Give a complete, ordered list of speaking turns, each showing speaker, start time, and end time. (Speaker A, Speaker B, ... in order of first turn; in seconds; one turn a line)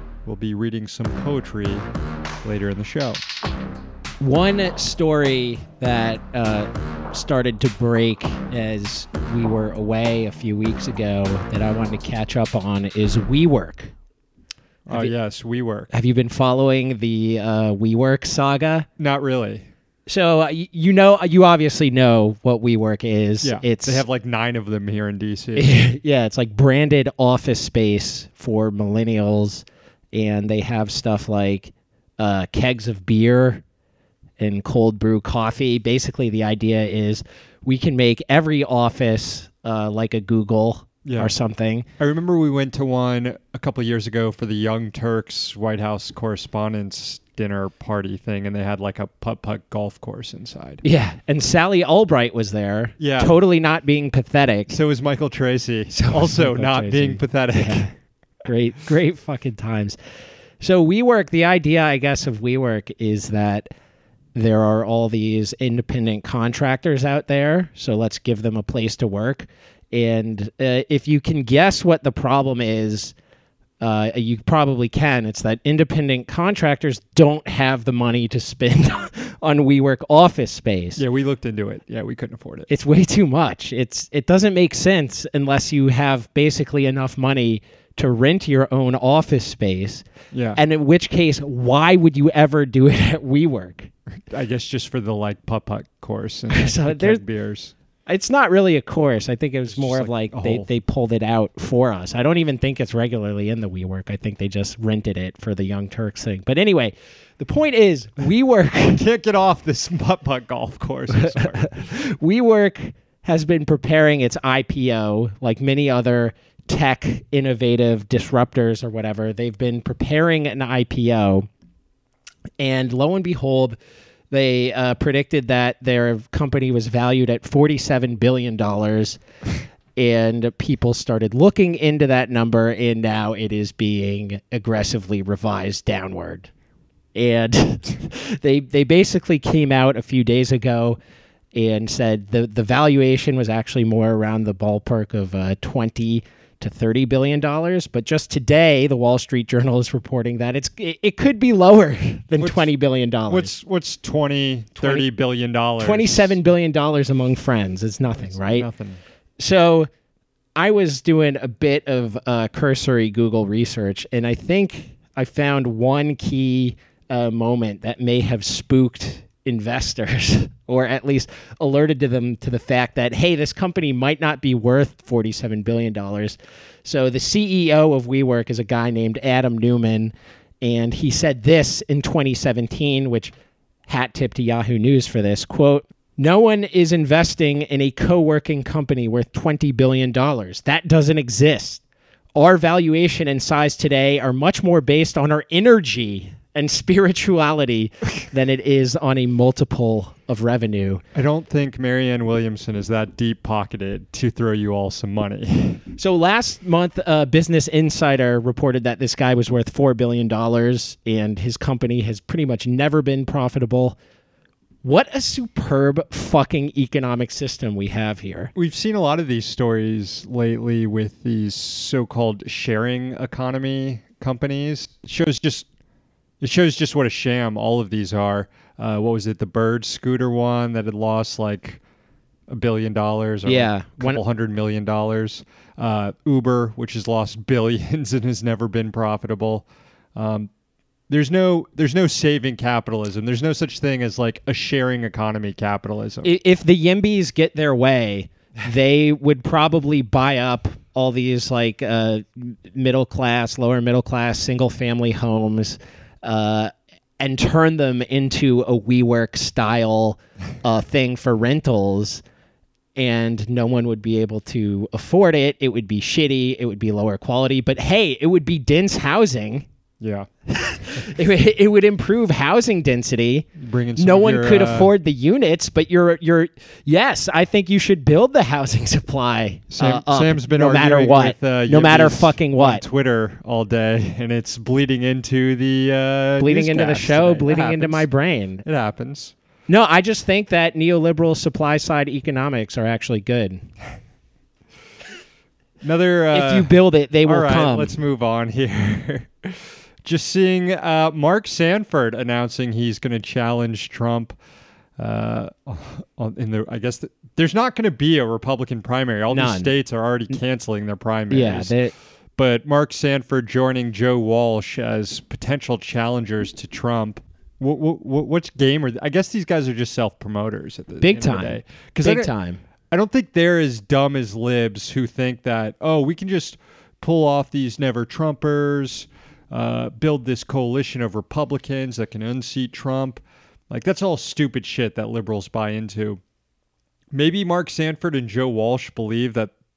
Speaker A: 0.2-1.9
Speaker A: 2.4-3.2
Speaker B: 4.2-13.9
Speaker A: 14.9-15.9
Speaker B: 15.9-18.9
Speaker A: 19.0-19.7
Speaker B: 20.1-24.1
Speaker A: 23.4-25.8
Speaker B: 25.6-33.6
Speaker B: 34.4-41.9
Speaker A: 41.0-41.3
Speaker A: 42.0-50.8
Speaker B: 50.8-54.8
Speaker A: 53.0-53.3
Speaker A: 54.7-57.9
Speaker B: 55.9-60.0
Speaker B: 60.6-63.7
Speaker B: 64.3-73.2
Speaker B: 73.8-81.0
Speaker A: 81.0-82.7
Speaker B: 82.7-93.9
Speaker A: 90.3-90.6
Speaker A: 94.3-97.7
Speaker B: 96.5-97.2
Speaker B: 98.1-109.0
Speaker A: 99.7-100.7
Speaker A: 108.9-111.8
Speaker B: 111.2-121.5
Speaker B: 122.6-123.8
Speaker B: 124.3-129.2
Speaker B: 130.0-136.5
Speaker B: 137.1-141.0
Speaker B: 141.5-153.5
Speaker A: 152.4-152.7
Speaker A: 153.3-156.3
Speaker B: 155.8-158.7
Speaker A: 158.2-159.0
Speaker B: 159.4-159.9
Speaker B: 160.6-183.3
Speaker B: 183.9-191.8
Speaker B: 192.3-201.0
Speaker A: 201.2-205.8
Speaker B: 206.0-214.0
Speaker B: 214.8-218.5
Speaker A: 218.6-225.7
Speaker A: 226.4-231.8
Speaker A: 232.5-240.5
Speaker B: 233.5-234.2
Speaker A: 241.1-246.3
Speaker B: 246.2-262.2
Speaker B: 263.0-269.7
Speaker A: 270.0-270.3
Speaker B: 270.5-282.8
Speaker A: 273.6-274.9
Speaker A: 279.7-288.1
Speaker B: 286.4-288.6
Speaker A: 288.6-289.3
Speaker B: 289.7-293.7
Speaker A: 295.8-296.7
Speaker B: 296.3-298.0
Speaker A: 297.2-304.4
Speaker A: 305.0-311.7
Speaker B: 309.3-309.7
Speaker B: 311.3-311.9
Speaker A: 312.4-322.3
Speaker B: 321.0-322.6
Speaker A: 322.9-336.2
Speaker A: 337.1-339.5